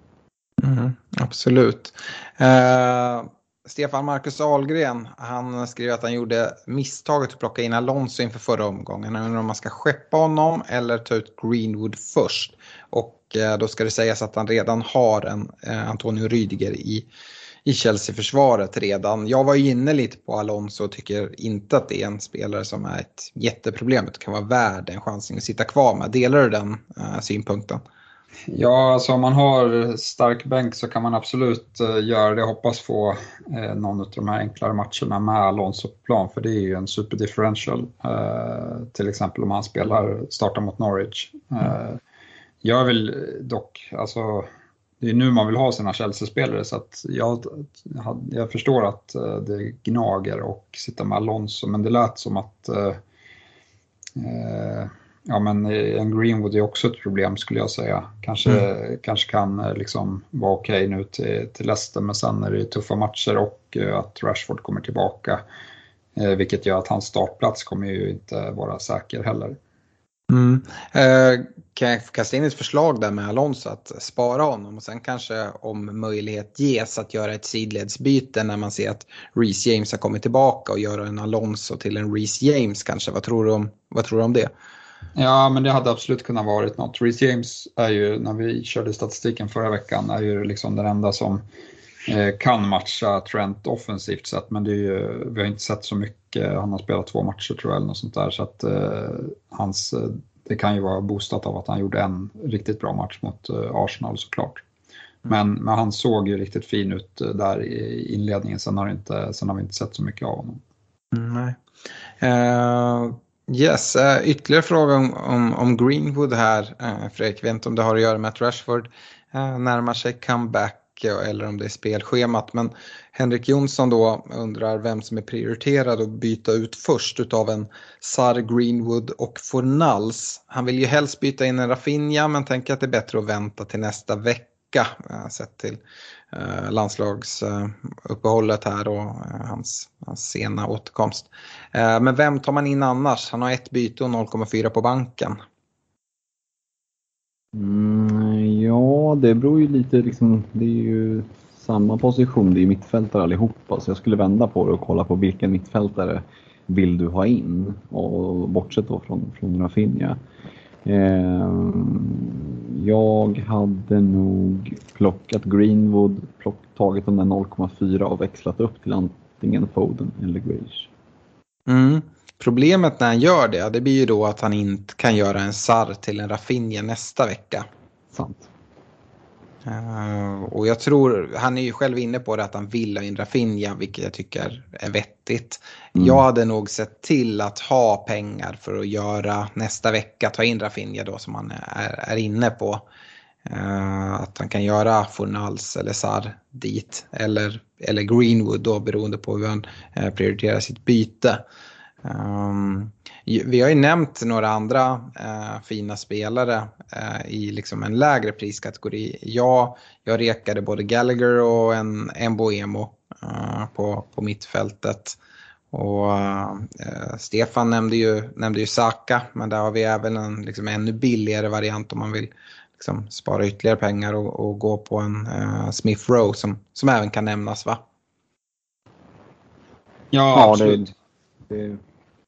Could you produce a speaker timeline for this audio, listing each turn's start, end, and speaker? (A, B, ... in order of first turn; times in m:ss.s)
0:00.6-0:17.1 A
0:17.7-0:27.8 A
0:28.5-0:42.0 B
0:42.6-0:44.5 B
0:45.0-0:53.0 B
0:54.2-1:05.4 B
1:06.2-1:09.6 B
1:10.3-1:24.5 A
1:25.2-1:31.4 B
1:32.1-1:44.6 B
1:45.3-1:50.6 B
1:51.1-1:51.6 A
1:52.2-2:15.8 A
2:16.3-2:25.4 A
2:27.6-2:40.2 C
2:40.8-2:50.9 C
2:51.7-2:57.7 A
2:58.1-2:58.5 C
2:59.7-3:12.8 A
3:06.0-3:06.2 C
3:13.5-3:21.4 A
3:22.0-3:35.2 A
3:35.7-3:47.8 A
3:50.1-3:50.9 B
3:50.3-3:50.9 C
3:51.5-3:51.8 C